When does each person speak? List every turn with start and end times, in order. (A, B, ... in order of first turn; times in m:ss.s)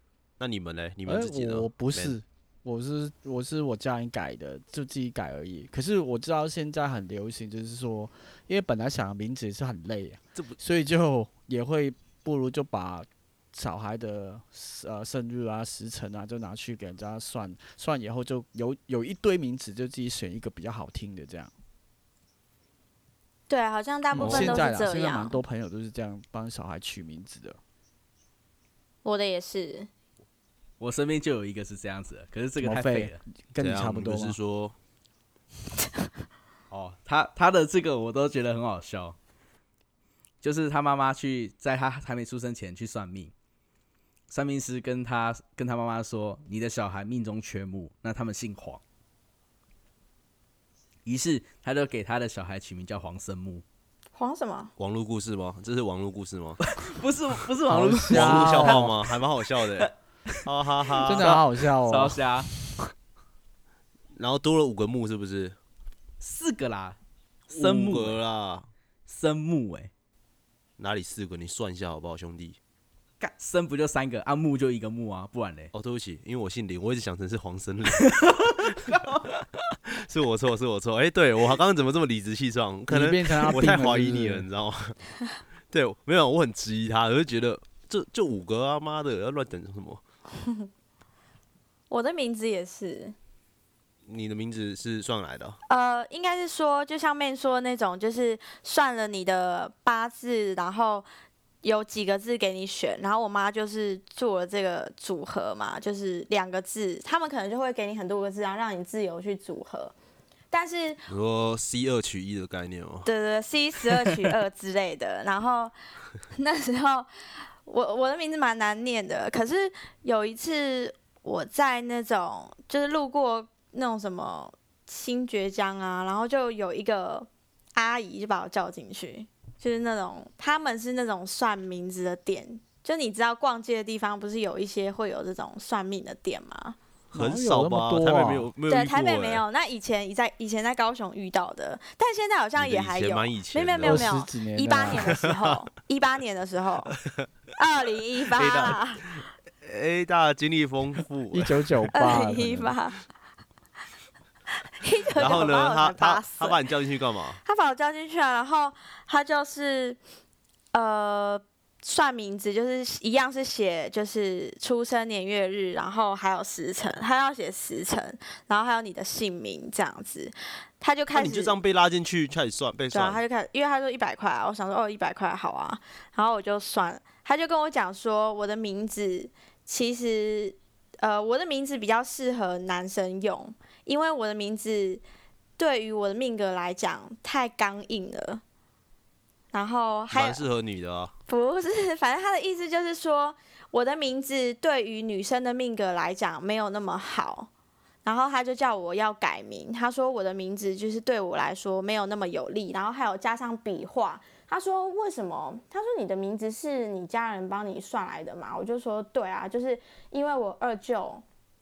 0:00.4-0:02.2 A
0:01.0-0:21.5 B
0:23.5-0:25.4 C
0:24.2-0:27.6 B
0:24.2-0:24.6 A
0:29.0-0:29.9 C
0:30.8-0:33.2 D
0:32.6-0:34.4 B
0:33.6-0:34.8 A
0:36.7-0:39.2 D
0:40.4-0:43.3 D
0:44.3-0:48.8 D
0:51.0-0:53.6 D
0:54.1-0:54.7 C
0:54.8-0:56.6 A
0:56.6-1:00.4 D
0:57.7-0:58.9 B
0:58.1-0:59.9 A
1:00.4-1:01.4 A
1:01.0-1:02.8 B
1:01.1-1:02.5 D
1:04.2-1:05.6 A
1:06.2-1:07.0 D
1:07.5-1:08.7 A
1:07.5-1:08.2 D
1:09.1-1:09.9 D
1:10.8-1:12.6 A
1:13.2-1:15.7 D
1:15.7-1:18.9 A
1:18.0-1:19.2 D
1:19.9-1:24.9 A
1:22.9-1:24.5 B
1:25.7-1:30.0 A
1:30.4-1:30.7 C
1:31.9-1:33.1 C
1:34.1-1:35.6 A
1:35.7-1:41.1 C
1:41.6-1:49.9 C
1:50.5-1:51.0 C
1:51.1-1:53.1 A
1:53.0-1:55.7 C
1:56.3-1:57.1 C
1:57.6-2:16.8 C
2:17.1-2:19.4 A
2:17.1-2:18.5 B
2:18.7-2:27.0 C
2:22.6-2:24.1 A
2:23.8-2:25.2 B
2:25.2-2:25.5 A
2:27.5-2:29.1 C
2:28.3-2:28.8 A
2:29.6-2:31.8 A
2:31.3-2:32.7 B
2:31.9-2:33.0 C
2:34.8-2:36.6 C
2:35.2-2:37.4 A
2:37.4-2:40.0 C
2:40.7-2:51.5 C
2:51.1-2:53.2 A
2:52.9-3:05.0 C
3:05.6-3:08.4 C
3:09.5-3:10.4 C
3:10.1-3:11.1 A
3:11.3-3:17.5 C
3:18.0-3:31.2 C